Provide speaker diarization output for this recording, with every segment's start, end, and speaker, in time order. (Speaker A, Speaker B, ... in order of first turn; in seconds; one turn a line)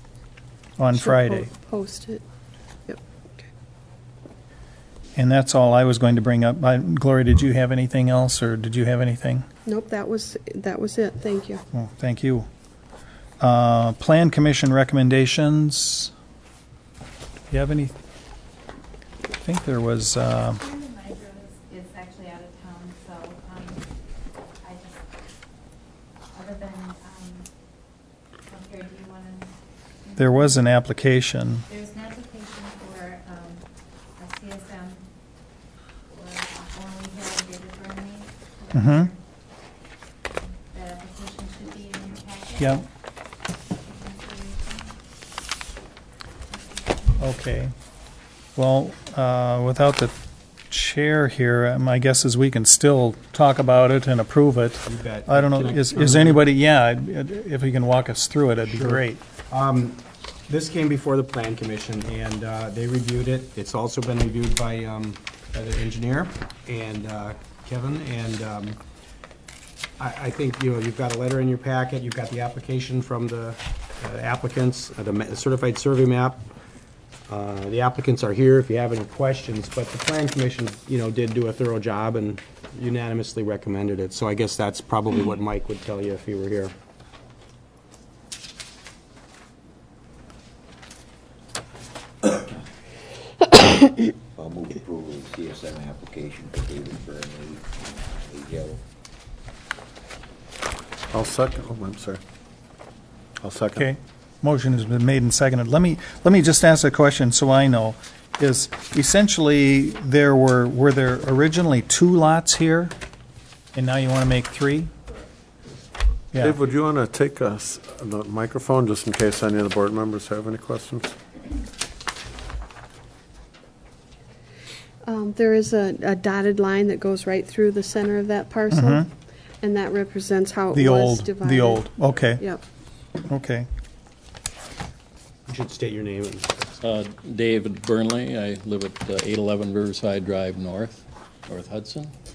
Speaker A: 0.8-1.5
Speaker B: 0.9-2.2
Speaker B: 2.9-3.5
Speaker A: 5.2-9.4
Speaker B: 9.7-11.6
Speaker A: 11.7-12.5
Speaker A: 13.4-16.1
Speaker A: 17.5-17.9
Speaker A: 19.4-20.6
Speaker C: 20.5-23.8
Speaker C: 24.6-25.0
Speaker C: 26.3-27.5
Speaker C: 28.4-29.5
Speaker C: 30.0-30.6
Speaker A: 30.2-31.6
Speaker C: 31.7-33.6
Speaker C: 34.2-35.0
Speaker C: 36.1-39.2
Speaker A: 38.7-39.1
Speaker C: 40.7-42.9
Speaker A: 42.6-42.8
Speaker C: 43.8-44.9
Speaker C: 46.7-47.0
Speaker A: 47.2-47.7
Speaker A: 48.5-50.1
Speaker A: 50.7-59.2
Speaker D: 54.8-56.5
Speaker D: 58.7-68.8
Speaker D: 70.0-76.5
Speaker D: 77.3-86.7
Speaker E: 93.6-98.8
Speaker F: 101.1-102.2
Speaker F: 103.4-103.9
Speaker A: 103.8-112.9
Speaker A: 113.7-114.9
Speaker F: 116.4-121.1
Speaker B: 125.0-129.1
Speaker A: 128.7-129.1
Speaker B: 129.6-131.8
Speaker A: 130.7-132.4
Speaker A: 133.3-133.7
Speaker D: 135.5-136.8
Speaker G: 136.8-142.1